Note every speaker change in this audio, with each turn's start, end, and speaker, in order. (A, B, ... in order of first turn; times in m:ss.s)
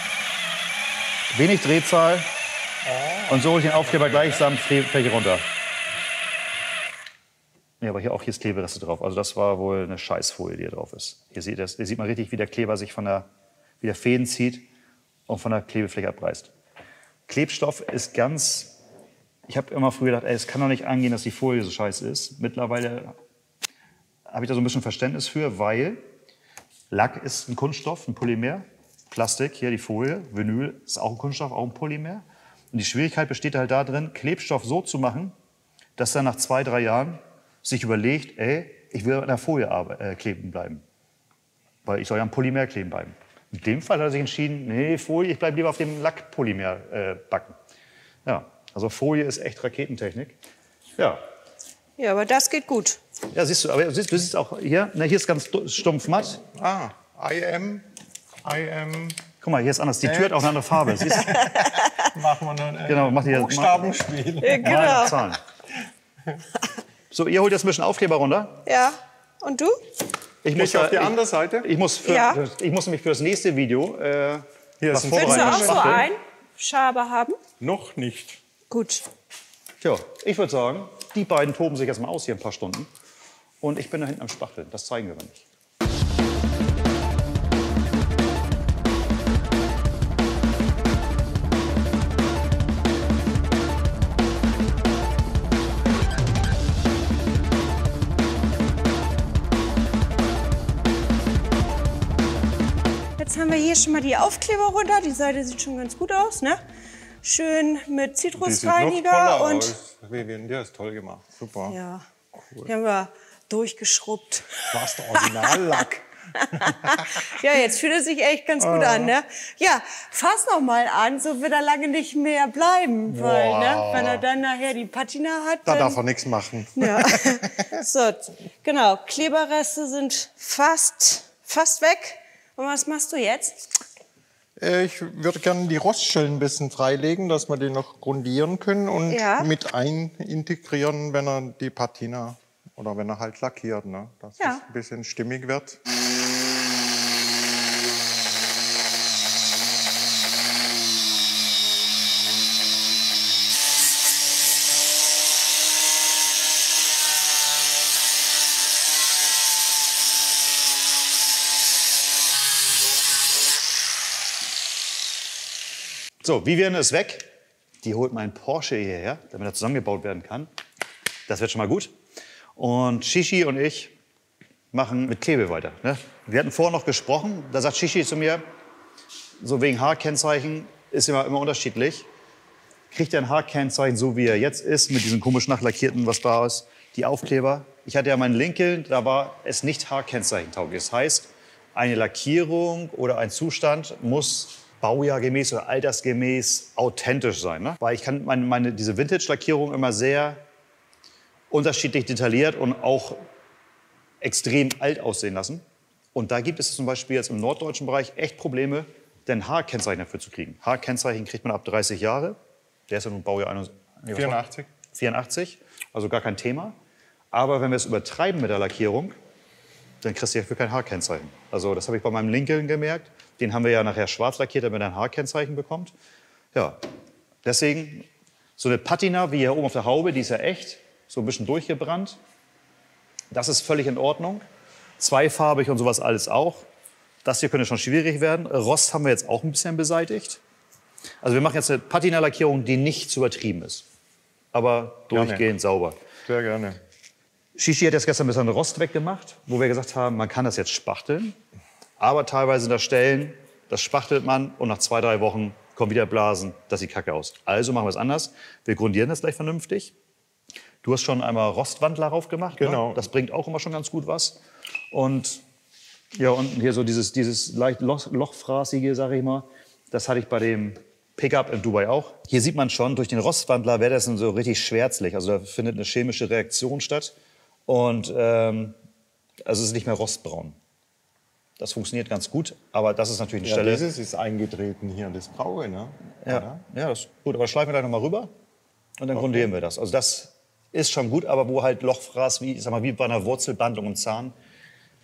0:01.3-0:02.3 A
0:02.8-0:04.4 B
0:03.3-0:05.4 A
0:07.8-0:13.3 A
0:13.8-0:14.6 A
0:15.3-0:16.5 A
0:17.3-0:18.7 A
0:19.5-0:23.1 A
0:24.3-0:26.0 A
0:26.9-0:35.3 A
0:36.0-0:40.8 A
0:41.8-0:47.5 A
0:48.2-0:50.4 A
0:52.0-0:53.0 C
0:53.3-0:56.4 A
0:56.5-0:57.9 B
0:58.4-0:59.2 B
0:59.4-1:01.5 A
1:00.0-1:01.5 B
1:01.1-1:02.0 C
1:02.0-1:05.0 B
1:02.8-1:03.9 A
1:04.4-1:05.2 C
1:04.6-1:05.4 A
1:07.1-1:08.6 A
1:08.6-1:09.8 C
1:10.4-1:16.1 A
1:10.5-1:11.7 B
1:12.0-1:12.4 C
1:14.8-1:16.0 B
1:15.2-1:17.4 C
1:17.6-1:18.4 B
1:18.7-1:19.0 C
1:19.8-1:22.9 A
1:23.6-1:25.4 A
1:43.2-1:46.6 C
1:47.2-1:49.7 C
1:48.4-1:51.8 B
1:51.7-1:52.1 C
1:52.6-1:55.6 C
1:54.7-1:56.0 B
1:56.4-2:06.0 C
1:58.6-1:59.1 B
2:03.1-2:04.2 B
2:05.6-2:07.6 B
2:06.8-2:13.6 C
2:14.6-2:25.8 B
2:19.1-2:19.5 C
2:46.2-2:47.3 A
2:47.8-2:50.5 A
2:51.3-2:51.9 A
2:52.6-2:53.9 A
2:54.7-2:58.4 A
2:59.4-3:02.1 A
3:02.9-3:20.4 A
3:21.5-3:23.3 A
3:24.2-3:25.6 A
3:26.1-3:32.4 A
3:32.9-3:36.7 A
3:34.1-3:34.7 B
3:37.3-3:39.2 A
3:40.0-3:45.9 A
3:46.5-3:46.8 A
3:47.4-3:48.0 A
3:48.6-3:52.2 A
3:53.3-3:54.4 A
3:55.0-3:56.6 A
3:57.2-4:00.4 A
4:01.2-4:03.8 A
4:04.5-4:06.0 A
4:05.1-4:05.5 B
4:06.2-4:06.8 B
4:07.6-4:11.4 A
4:12.0-4:19.9 A
4:20.8-4:24.4 A
4:22.6-4:23.1 B
4:24.9-4:25.4 A
4:26.1-4:37.1 A
4:37.7-4:38.7 A
4:39.4-4:40.6 A
4:41.6-4:43.8 A
4:43.4-4:46.6 B
4:46.2-4:48.3 A
4:49.0-4:54.3 A